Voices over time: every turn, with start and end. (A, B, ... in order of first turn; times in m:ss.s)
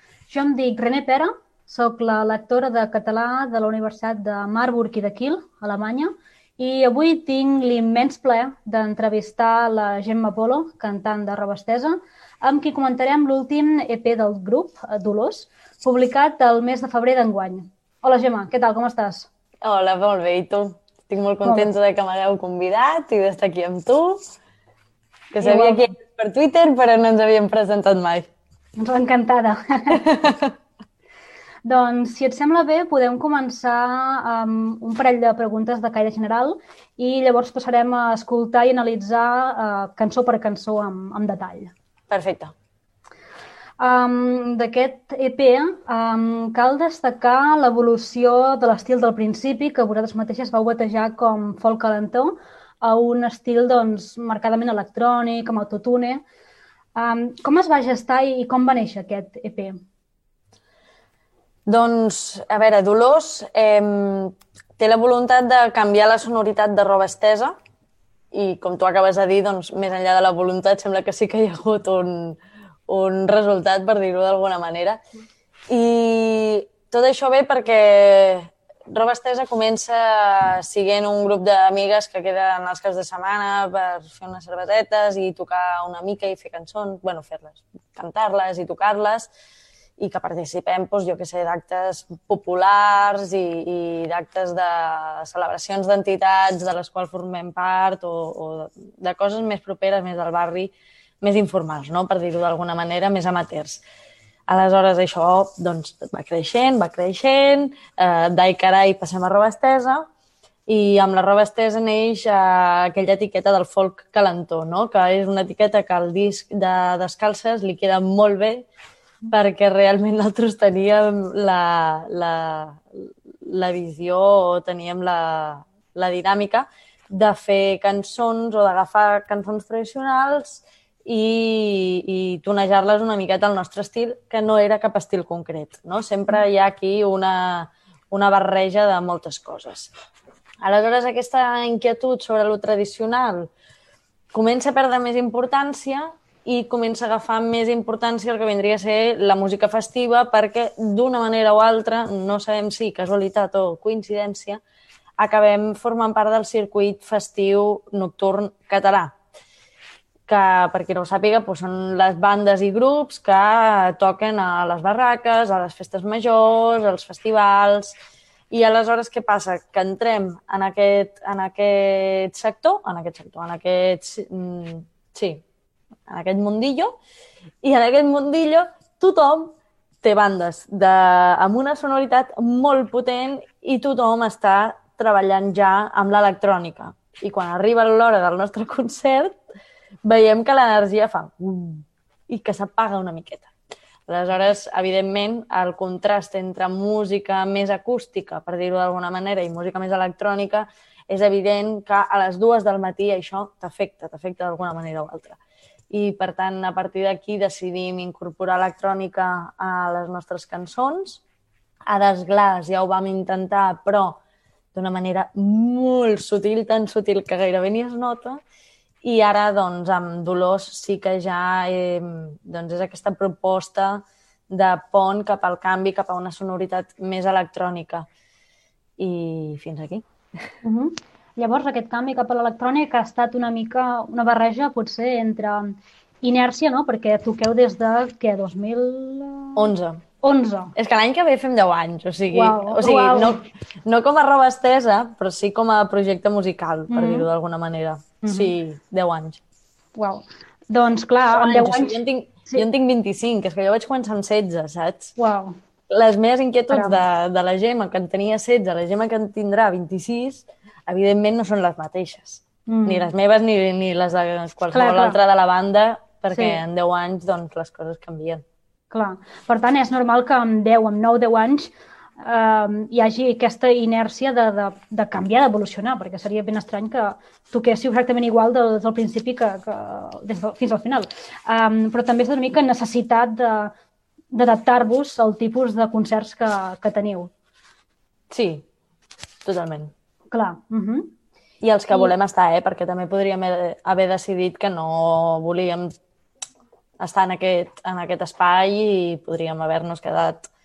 0:00.3-0:19.3 A
0:19.6-0:24.2 B
0:21.4-0:21.7 A
0:25.3-0:28.3 B
0:25.4-0:25.9 A
0:28.8-0:30.0 A
0:29.9-0:30.5 B
0:31.6-0:41.7 A
0:42.1-0:42.5 B
0:43.8-0:56.2 A
0:57.0-0:59.8 A
1:01.7-1:07.6 B
1:08.3-1:15.0 B
1:15.7-1:29.3 B
1:30.0-1:43.8 B
1:44.5-1:50.1 B
1:50.7-1:58.7 B
1:59.3-2:19.9 B
2:20.6-2:23.5 B
2:24.3-2:34.6 B
2:35.2-2:39.2 B
2:40.3-2:48.0 B
2:48.5-2:55.4 B
2:56.1-2:57.0 B
2:57.6-3:09.4 B
3:10.0-3:13.5 B
3:14.1-3:25.4 B
3:25.9-3:31.2 B
3:31.9-3:34.2 B
3:34.7-3:38.4 B
3:39.0-3:48.1 B
3:49.0-3:50.0 B
3:50.6-3:59.7 A
3:59.6-4:00.0 B
4:00.2-4:00.7 A
4:00.8-4:09.4 B
4:02.3-4:03.4 A
4:06.9-4:07.3 A
4:08.2-4:08.5 A
4:10.0-4:12.6 A
4:11.3-4:15.1 B
4:15.2-4:15.6 A
4:15.9-4:28.4 B
4:16.7-4:17.0 A
4:22.7-4:23.1 A
4:24.7-4:25.2 A
4:26.3-4:26.6 A
4:28.9-4:43.7 A
4:44.3-4:47.3 A
4:48.3-4:48.6 B
4:49.4-4:49.9 B
4:50.3-4:51.1 A
4:51.6-4:55.9 B
4:57.0-5:00.5 B